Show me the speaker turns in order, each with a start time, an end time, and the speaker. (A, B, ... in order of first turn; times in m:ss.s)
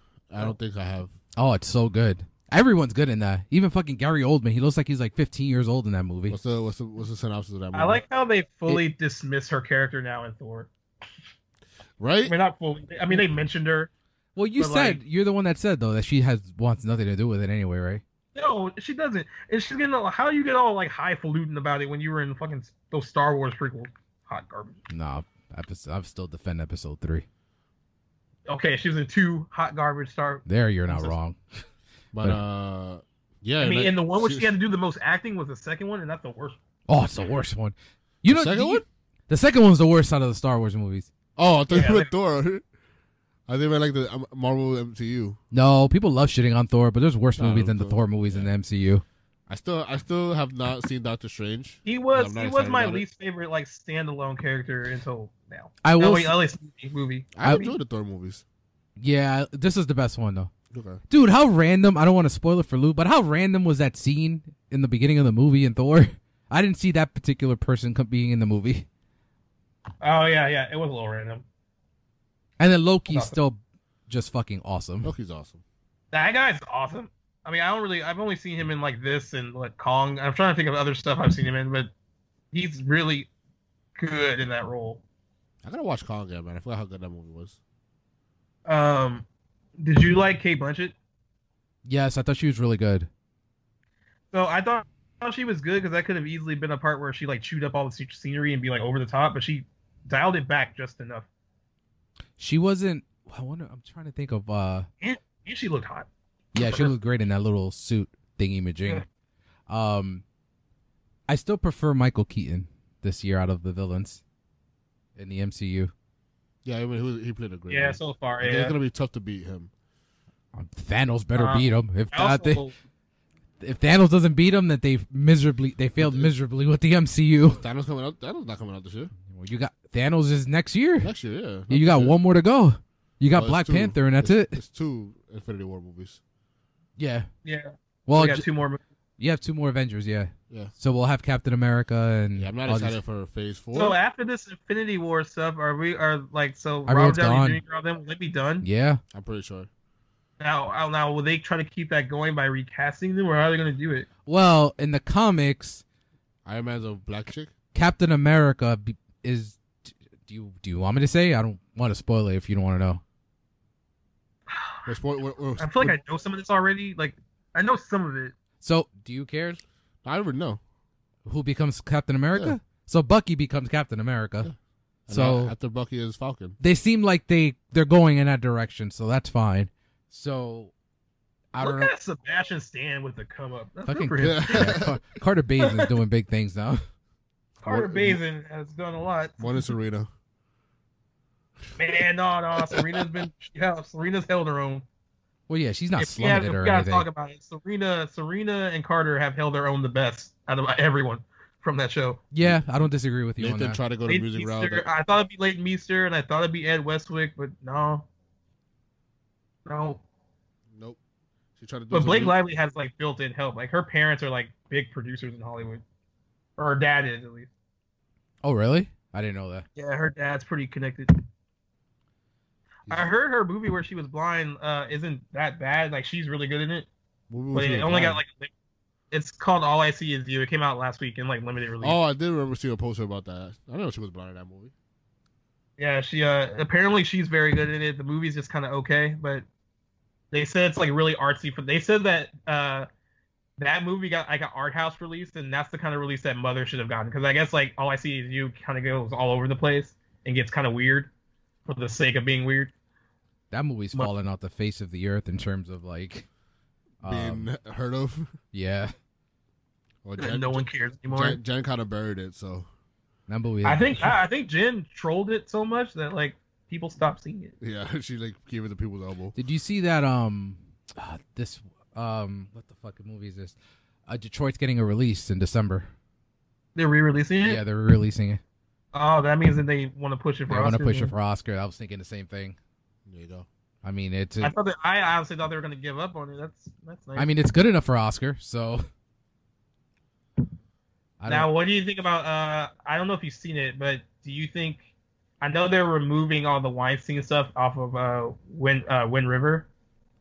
0:00.3-0:01.1 A
0:01.4-0:06.4 B
0:06.3-0:08.0 A
0:07.7-0:10.7 C
0:12.0-0:12.4 A
0:12.2-0:13.9 C
0:14.4-0:18.0 B
0:14.6-0:15.0 C
0:18.3-0:24.8 C
0:24.9-0:27.2 B
0:28.5-0:31.2 C
0:30.4-0:31.4 B
0:32.1-0:34.5 A
0:33.6-0:36.6 C
0:36.9-0:41.1 B
0:38.2-0:38.8 A
0:41.4-0:42.6 A
0:41.7-0:42.1 C
0:43.5-0:45.4 A
0:45.5-0:49.0 B
0:47.4-0:48.5 A
0:49.5-0:53.0 A
0:51.8-0:57.7 C
0:55.8-0:56.3 B
0:57.3-0:58.4 A
0:59.0-1:00.5 B
1:00.7-1:01.0 A
1:01.1-1:08.9 B
1:10.0-1:11.4 C
1:12.6-1:15.1 B
1:13.1-1:13.4 C
1:15.0-1:15.6 A
1:16.1-1:21.9 C
1:22.5-1:23.3 C
1:24.0-1:25.0 C
1:25.6-1:27.6 A
1:28.6-1:29.2 C
1:29.8-1:30.9 C
1:31.8-1:33.1 B
1:34.3-1:41.3 C
1:42.4-1:44.9 B
1:45.0-1:46.9 C
1:46.5-1:49.0 B
1:49.7-1:50.2 B
1:51.3-1:54.2 B
1:55.2-1:55.9 B
1:56.6-1:59.7 A
1:57.7-1:58.8 C
2:00.5-2:02.6 B
2:01.3-2:02.7 C
2:03.6-2:07.6 B
2:06.0-2:06.3 A
2:07.6-2:09.1 A
2:09.3-2:11.1 B
2:11.0-2:12.2 A
2:11.7-2:14.6 B
2:13.3-2:16.2 A
2:17.0-2:17.3 B
2:17.4-2:18.8 C
2:18.1-2:18.4 B
2:19.2-2:23.0 B
2:22.4-2:24.0 A
2:23.7-2:28.6 C
2:26.9-2:27.6 B
2:28.6-2:29.0 B
2:29.1-2:29.7 A
2:30.4-2:34.1 C
2:34.2-2:35.8 B
2:36.4-2:37.5 A
2:37.7-2:43.0 B
2:44.5-2:44.9 C
2:44.8-2:46.0 A
2:45.6-2:48.3 C
2:48.6-2:49.6 B
2:50.0-2:50.6 A
2:51.2-2:54.5 B
2:55.1-2:56.6 A
2:55.1-2:55.5 B
2:56.6-3:00.7 B
3:01.5-3:01.9 B
3:01.6-3:04.8 C
3:03.8-3:06.8 B
3:04.2-3:05.0 A
3:05.6-3:05.9 C
3:07.6-3:09.7 C
3:07.6-3:08.2 A
3:09.4-3:10.1 A
3:11.8-3:14.8 C
3:12.7-3:13.2 A
3:15.5-3:17.1 B
3:16.0-3:22.2 C
3:22.3-3:23.8 B
3:23.4-3:24.8 A
3:24.0-3:28.0 C
3:29.6-3:30.0 C
3:30.7-3:31.0 A
3:31.6-3:32.4 A
3:31.9-3:35.8 C
3:36.6-3:37.5 C
3:38.4-3:39.6 B
3:39.8-3:41.2 C
3:42.9-3:46.9 C
3:47.3-3:48.2 A
3:47.5-3:48.5 C
3:49.1-3:52.0 C
3:51.8-3:54.7 A
3:55.8-3:59.4 C
4:00.3-4:02.9 C
4:03.6-4:11.1 C
4:11.6-4:12.7 C
4:13.5-4:16.2 B
4:17.0-4:17.5 B
4:17.0-4:18.4 A
4:18.5-4:18.9 B
4:20.0-4:22.7 A
4:20.2-4:21.4 C
4:23.3-4:24.1 B
4:23.6-4:27.5 C
4:27.6-4:29.3 A
4:29.3-4:35.9 B
4:36.8-4:37.6 C
4:37.4-4:38.4 B
4:38.9-4:41.1 C
4:40.5-4:42.6 B
4:43.0-4:43.5 A
4:43.8-4:44.5 B
4:44.4-4:47.3 C
4:47.2-4:48.9 B
4:51.2-4:51.5 B
4:51.3-4:54.8 C
4:55.4-4:59.7 C